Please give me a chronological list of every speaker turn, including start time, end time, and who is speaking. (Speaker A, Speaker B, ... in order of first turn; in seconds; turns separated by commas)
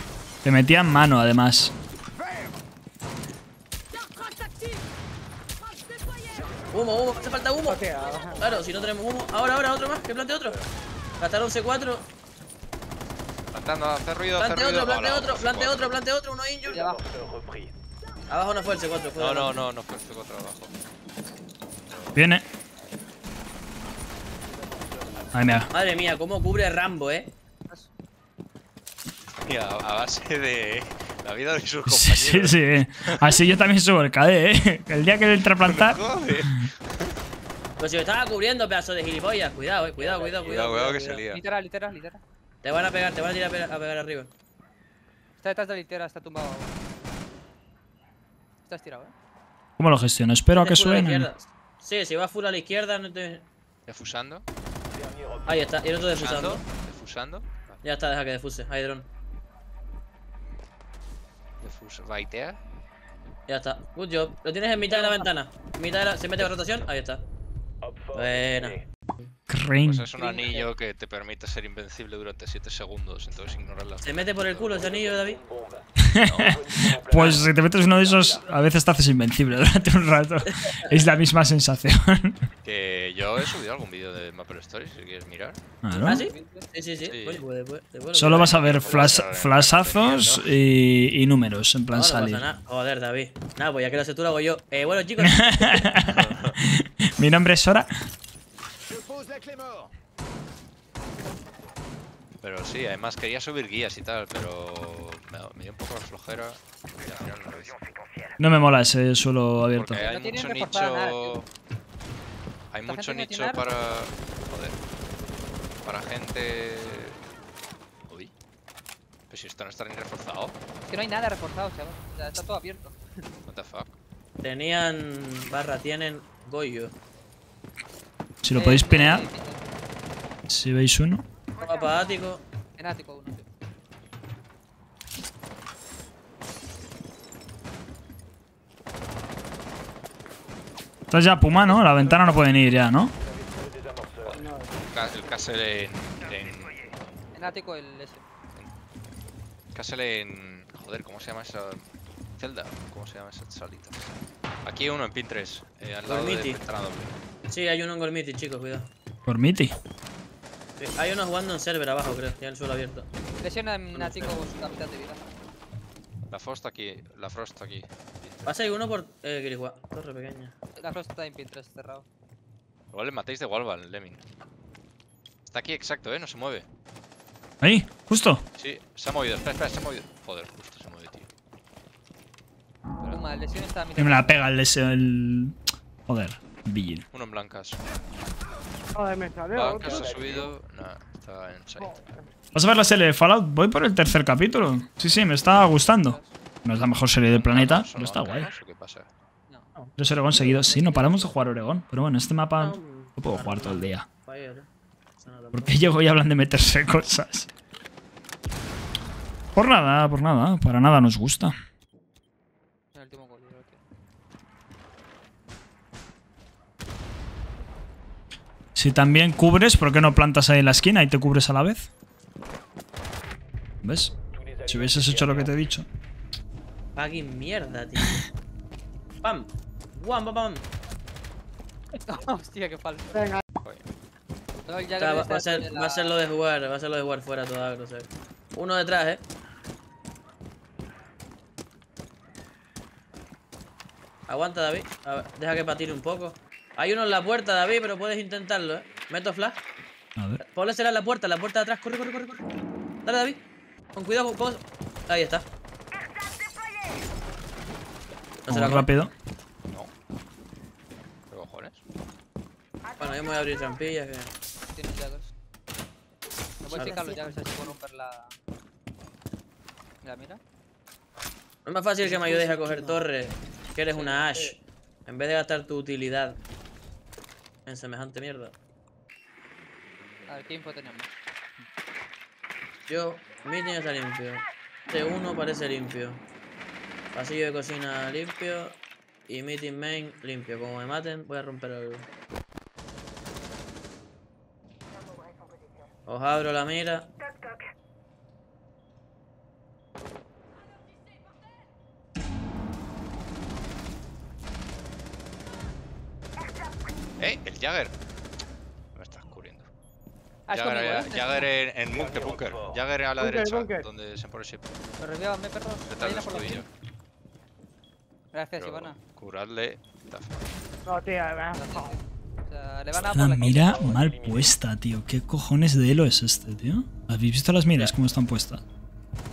Speaker A: 0.5-1.7, Speaker B: 6.7-7.8, Speaker C: 7.7-8.5, Speaker B: 8.3-10.6, Speaker B: 11.2-12.1, Speaker D: 13.5-15.9, Speaker B: 14.4-17.0, Speaker E: 16.7-17.1, Speaker B: 18.3-19.6, Speaker D: 19.2-20.7, Speaker D: 21.9-22.2, Speaker A: 22.1-22.4, Speaker A: 25.3-25.7, Speaker B: 25.7-27.3, Speaker D: 29.4-33.4, Speaker A: 31.9-36.0, Speaker D: 35.6-37.2, Speaker B: 37.8-41.3, Speaker D: 40.4-41.4, Speaker E: 41.3-42.2, Speaker B: 42.6-44.3, Speaker E: 45.4-46.8, Speaker E: 48.6-49.1, Speaker A: 49.8-51.3, Speaker B: 50.5-53.5, Speaker D: 53.9-54.5, Speaker B: 55.5-56.6, Speaker D: 56.1-57.8, Speaker B: 57.8-59.1, Speaker D: 61.6-62.6, Speaker B: 63.5-67.2, Speaker B: 68.1-68.8, Speaker A: 69.5-70.1, Speaker D: 69.8-74.9, Speaker E: 70.2-70.7, Speaker B: 74.0-75.4, Speaker A: 76.0-82.5, Speaker D: 76.2-76.6, Speaker B: 77.1-77.4, Speaker D: 82.6-85.6, Speaker A: 85.8-86.2, Speaker E: 85.9-86.7, Speaker B: 86.0-89.2, Speaker D: 87.0-87.4, Speaker A: 88.1-92.5, Speaker D: 88.3-90.5, Speaker B: 91.9-96.0, Speaker A: 95.2-97.9, Speaker D: 96.0-96.6, Speaker D: 102.4-107.8, Speaker A: 108.4-110.1, Speaker D: 109.7-111.5, Speaker E: 110.1-111.4, Speaker D: 112.7-114.8, Speaker E: 112.8-113.6, Speaker D: 115.8-117.2, Speaker D: 119.3-120.6, Speaker E: 120.8-123.2, Speaker D: 123.5-124.0, Speaker B: 124.4-126.9, Speaker A: 128.4-129.3, Speaker E: 128.5-129.8, Speaker A: 130.5-131.2, Speaker B: 131.6-132.4, Speaker E: 132.8-133.5, Speaker A: 141.1-143.1, Speaker D: 144.2-146.8, Speaker C: 144.3-144.7, Speaker E: 147.3-148.3, Speaker D: 149.7-151.8, Speaker D: 152.4-154.1, Speaker D: 154.7-157.2, Speaker B: 156.1-156.6, Speaker B: 157.5-158.9, Speaker A: 159.3-159.7, Speaker B: 160.8-163.1, Speaker E: 163.4-165.3, Speaker B: 163.9-164.4, Speaker D: 166.3-168.7, Speaker B: 168.5-170.6, Speaker E: 170.8-172.1, Speaker D: 172.9-174.2, Speaker D: 175.5-176.7, Speaker A: 177.6-178.4, Speaker D: 178.6-181.3, Speaker E: 183.0-184.4, Speaker A: 184.0-187.0, Speaker D: 187.1-187.8, Speaker C: 188.9-190.4, Speaker D: 189.5-192.1, Speaker C: 191.8-192.2, Speaker A: 192.5-198.5, Speaker E: 195.8-196.3, Speaker D: 197.3-199.1, Speaker A: 200.0-204.1, Speaker C: 200.3-201.2, Speaker B: 202.6-206.1, Speaker A: 205.5-207.5, Speaker A: 209.6-211.5, Speaker E: 212.9-213.8, Speaker A: 218.8-221.9, Speaker A: 223.8-225.9, Speaker B: 227.0-228.2, Speaker B: 229.2-230.7, Speaker E: 231.9-233.3, Speaker D: 233.6-233.9, Speaker E: 234.7-236.2, Speaker B: 235.0-239.2, Speaker B: 244.3-249.6, Speaker B: 250.4-252.4, Speaker B: 253.1-253.4, Speaker B: 253.9-255.5, Speaker B: 258.4-258.9, Speaker A: 258.5-259.1, Speaker D: 261.3-261.8, Speaker B: 263.0-264.3, Speaker E: 264.7-265.3, Speaker E: 266.6-268.4, Speaker B: 266.7-267.0, Speaker E: 270.0-270.4, Speaker B: 271.7-276.4, Speaker E: 272.1-272.8, Speaker E: 273.9-274.4, Speaker B: 277.7-278.6, Speaker E: 280.3-281.1, Speaker B: 282.9-286.2, Speaker B: 287.1-292.1, Speaker B: 296.1-297.1, Speaker D: 307.2-307.9, Speaker D: 308.9-309.7, Speaker E: 310.5-311.5, Speaker D: 310.5-314.8, Speaker C: 313.2-313.9, Speaker E: 315.0-316.7, Speaker D: 315.9-316.7, Speaker E: 318.3-319.0, Speaker D: 318.6-320.5, Speaker C: 320.9-322.0, Speaker E: 321.6-323.9, Speaker A: 323.0-328.6